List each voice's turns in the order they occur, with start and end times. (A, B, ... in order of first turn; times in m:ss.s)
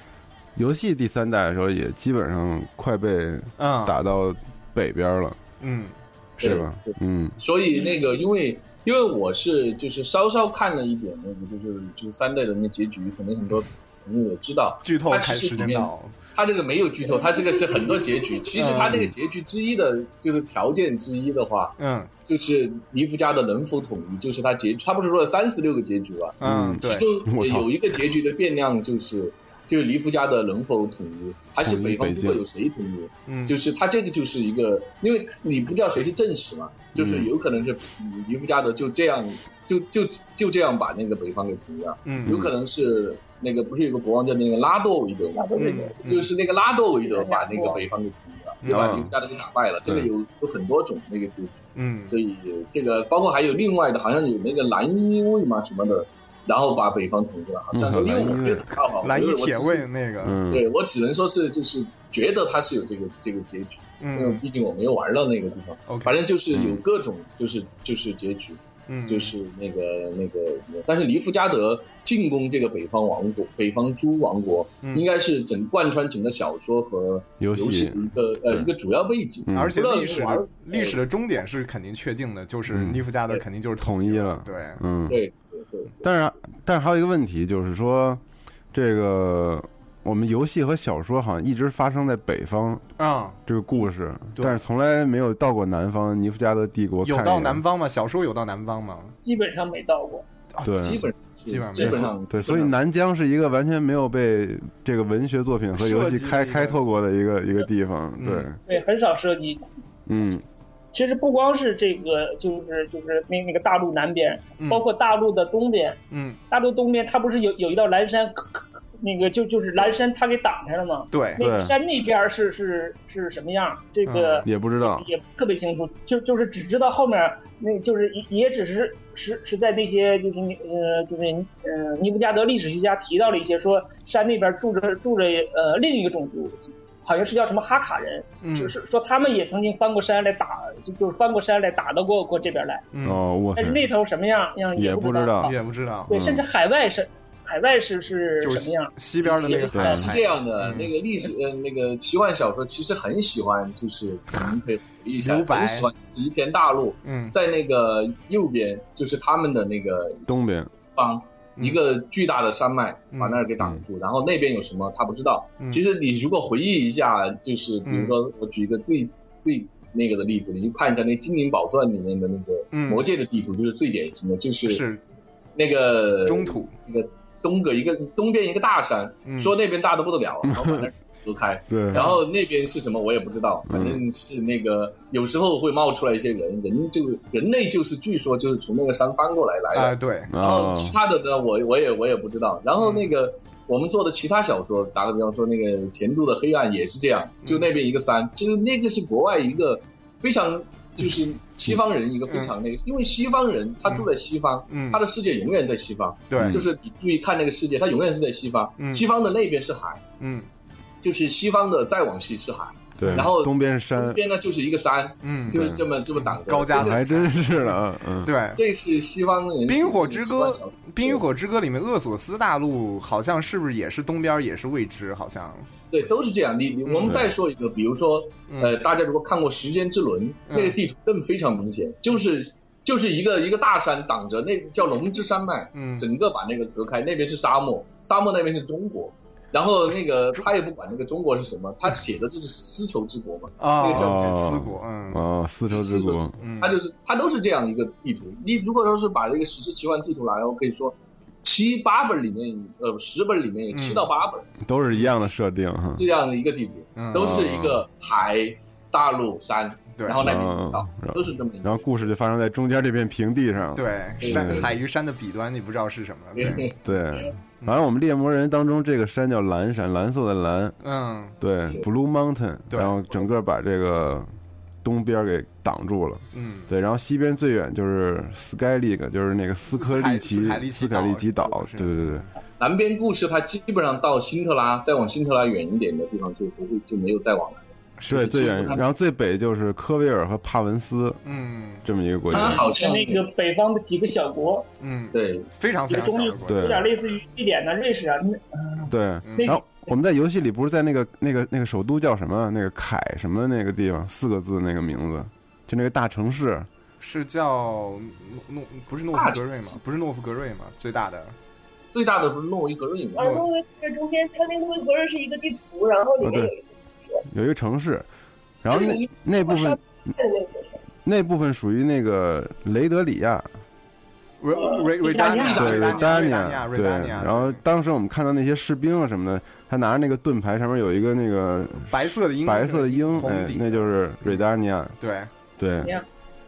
0:00.6-0:05.4 A
0:03.6-0:03.9 B
0:05.6-0:05.9 B
0:06.4-0:07.4 A
0:06.4-0:21.7 C
0:14.8-0:16.2 B
0:18.5-0:19.0 B
0:21.8-0:22.1 B
0:22.2-0:51.6 C
0:26.4-0:27.1 B
0:26.4-0:27.7 A
0:31.6-0:32.4 A
0:33.3-0:33.6 B
0:37.0-0:37.3 A
0:42.0-0:42.4 B
0:42.2-0:42.5 A
0:45.4-0:46.0 D
0:45.6-0:46.3 B
0:47.0-0:47.8 D
0:48.6-0:49.0 B
0:48.7-0:49.1 A
0:51.7-0:52.2 B
0:52.1-0:59.8 C
0:57.7-0:58.7 A
0:59.0-1:00.4 B
1:00.2-1:00.7 A
1:00.5-1:21.0 C
1:04.0-1:04.4 B
1:05.9-1:06.2 B
1:06.5-1:06.8 A
1:08.9-1:09.3 B
1:17.4-1:18.7 A
1:19.5-1:19.7 A
1:19.5-1:24.8 B
1:22.7-1:23.0 A
1:23.8-1:25.2 A
1:25.1-1:26.1 C
1:26.0-1:28.2 A
1:28.7-1:32.8 A
1:33.0-1:33.4 B
1:33.4-1:37.6 A
1:37.0-1:39.1 B
1:39.2-1:40.2 D
1:40.5-1:42.1 B
1:40.6-1:41.1 A
1:40.8-1:42.7 C
1:41.8-1:48.6 A
1:45.7-1:46.8 B
1:48.2-1:48.5 B
1:48.7-1:49.6 D
1:50.1-1:50.4 A
1:50.9-1:56.0 D
1:54.6-1:54.8 B
1:56.1-1:56.4 B
1:56.5-2:22.8 D
2:01.1-2:01.4 B
2:01.4-2:01.7 A
2:04.1-2:04.5 B
2:04.4-2:05.1 A
2:18.4-2:18.8 B
2:22.9-2:23.2 B
2:23.0-2:23.9 A
2:23.5-2:25.5 D
2:24.8-2:25.5 A
2:25.4-2:26.2 B
2:26.1-2:26.4 A
2:26.1-2:28.9 D
2:28.4-2:30.9 B
2:29.2-2:54.8 C
2:29.7-2:30.2 A
2:35.2-2:35.9 B
2:37.0-2:37.3 B
2:40.3-2:40.7 A
2:43.1-2:43.4 B
2:47.8-2:48.2 B
2:52.7-2:53.1 B
2:54.6-2:55.0 B
2:55.6-3:30.0 C
2:56.2-2:56.7 B
2:59.2-2:59.5 B
3:00.4-3:00.9 A
3:01.7-3:02.1 A
3:01.9-3:02.2 B
3:03.7-3:04.0 A
3:09.7-3:10.3 B
3:10.3-3:11.0 A
3:12.8-3:13.1 B
3:22.3-3:22.5 B
3:24.7-3:25.0 B
3:26.3-3:26.6 B
3:26.4-3:26.7 A
3:28.8-3:29.1 B
3:30.2-3:30.5 B
3:31.0-3:37.2 C
3:33.0-3:34.2 A
3:33.0-3:33.3 B
3:35.2-3:38.6 B
3:35.5-3:35.8 A
3:36.7-3:38.3 A
3:38.6-3:41.2 C
3:39.7-3:45.7 B
3:45.9-4:04.4 C
3:46.8-3:47.3 B
3:48.5-3:48.8 B
3:50.5-3:50.8 B
3:55.7-3:56.1 B
4:03.6-4:05.2 B
4:03.9-4:06.4 A
4:05.7-4:14.5 C
4:06.4-4:06.8 B
4:13.7-4:14.1 B
4:14.6-4:16.1 A
4:14.9-4:15.2 B
4:15.9-4:22.1 C
4:17.0-4:17.5 B
4:17.1-4:17.8 A
4:20.0-4:20.3 B
4:20.2-4:24.7 A
4:23.7-4:26.7 B
4:24.2-4:24.7 C
4:26.3-4:27.3 C
4:26.5-4:30.8 A
4:30.8-4:31.4 B
4:31.4-4:34.3 A
4:32.7-4:33.1 B
4:34.8-4:42.2 A
4:36.3-4:36.7 B
4:39.7-4:42.3 B
4:42.6-4:48.8 C
4:48.0-4:48.8 B
4:48.1-4:51.2 A
4:51.2-4:52.5 B
4:51.8-4:52.6 A
4:52.3-4:53.3 C
4:52.5-4:54.7 D
4:54.8-4:56.8 B
4:55.1-4:55.4 C
4:55.9-4:59.6 D
4:56.5-4:56.9 A
4:58.9-5:06.7 A
4:59.2-4:59.5 B
5:07.0-5:11.4 B
5:09.1-5:09.8 C
5:11.9-5:13.4 C
5:13.2-5:17.2 E
5:13.2-5:13.4 B
5:16.2-5:16.5 A
5:17.3-5:18.1 A
5:18.6-5:20.1 A
5:18.7-5:20.8 E
5:21.0-5:23.4 A
5:24.4-5:27.6 B
5:25.0-5:25.6 D
5:25.4-5:26.2 C
5:25.6-5:34.9 A
5:31.9-5:34.4 B
5:35.0-5:35.3 B
5:35.6-5:35.9 A